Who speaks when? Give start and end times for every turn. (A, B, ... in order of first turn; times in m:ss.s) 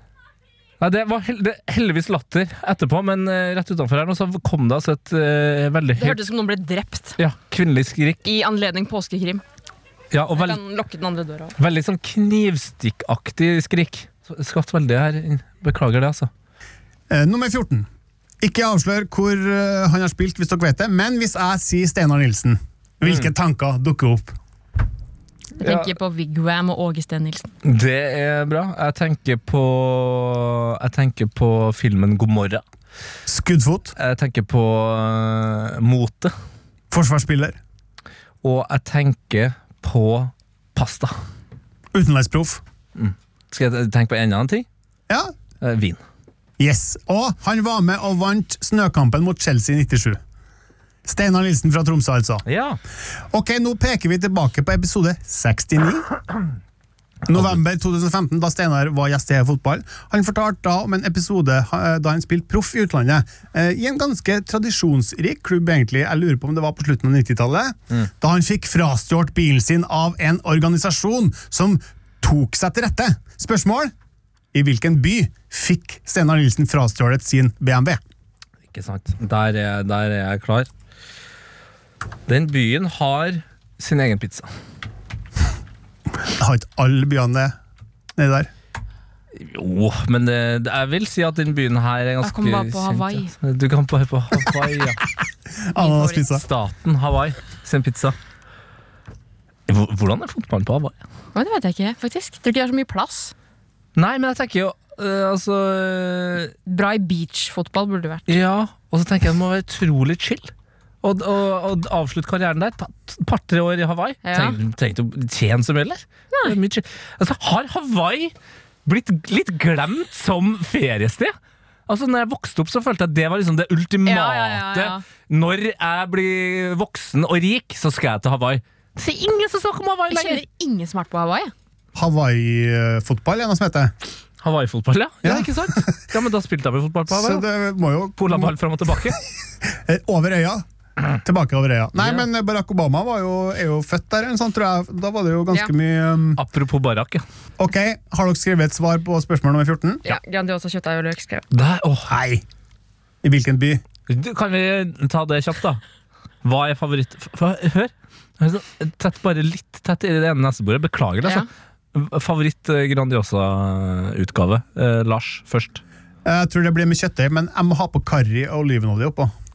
0:00.8-0:06.2 A
0:06.0-0:07.2 B
0:07.2-0:08.2 A
0:08.2-0:09.4 B
0:10.1-0:10.6 A
0:10.3-0:11.5 B
0:11.6-0:16.3 A
0:17.1-0:17.9 C
0:18.4-0:24.3 C
0:23.0-0:23.3 A
0:25.6-0:27.5 B
0:25.6-0:25.9 A
0:27.6-0:32.6 A
0:33.3-0:33.9 C
0:34.0-0:36.3 A
0:36.9-0:37.6 C
0:38.4-0:41.1 A
0:41.9-0:42.6 C
0:43.0-0:44.6 A
0:45.6-0:46.0 A
0:46.6-0:50.2 C
0:51.0-0:52.4 C
0:52.5-0:52.8 A
0:53.3-0:56.1 C
0:57.3-1:13.9 C
0:57.3-0:57.6 A
1:14.5-1:18.0 C
1:18.7-1:20.7 A
1:22.3-1:24.5 A
1:26.2-1:27.5 C
1:28.2-1:28.5 C
1:29.3-1:35.0 A
1:32.2-1:33.3 B
1:35.6-1:36.4 C
1:35.8-1:36.2 B
1:36.3-1:38.2 A
1:39.7-1:41.0 A
1:41.3-1:43.3 B
1:44.0-1:46.5 A
1:46.6-1:48.3 B
1:48.3-1:50.5 A
1:51.0-1:58.3 A
1:54.2-1:54.6 B
1:58.8-2:01.3 A
2:01.9-2:10.4 A
2:04.0-2:05.0 B
2:10.1-2:11.5 B
2:11.9-2:13.9 C
2:14.4-2:17.4 A
2:15.2-2:15.9 C
2:17.1-2:18.5 C
2:18.2-2:19.2 A
2:19.7-2:20.6 C
2:21.2-2:26.4 C
2:22.0-2:22.2 A
2:26.4-2:27.2 A
2:27.6-2:30.0 C
2:30.0-2:31.4 B
2:31.5-2:32.1 A
2:32.1-2:32.4 C
2:33.2-2:33.8 C
2:34.1-2:35.8 A
2:36.4-2:45.8 A
2:46.2-2:49.3 C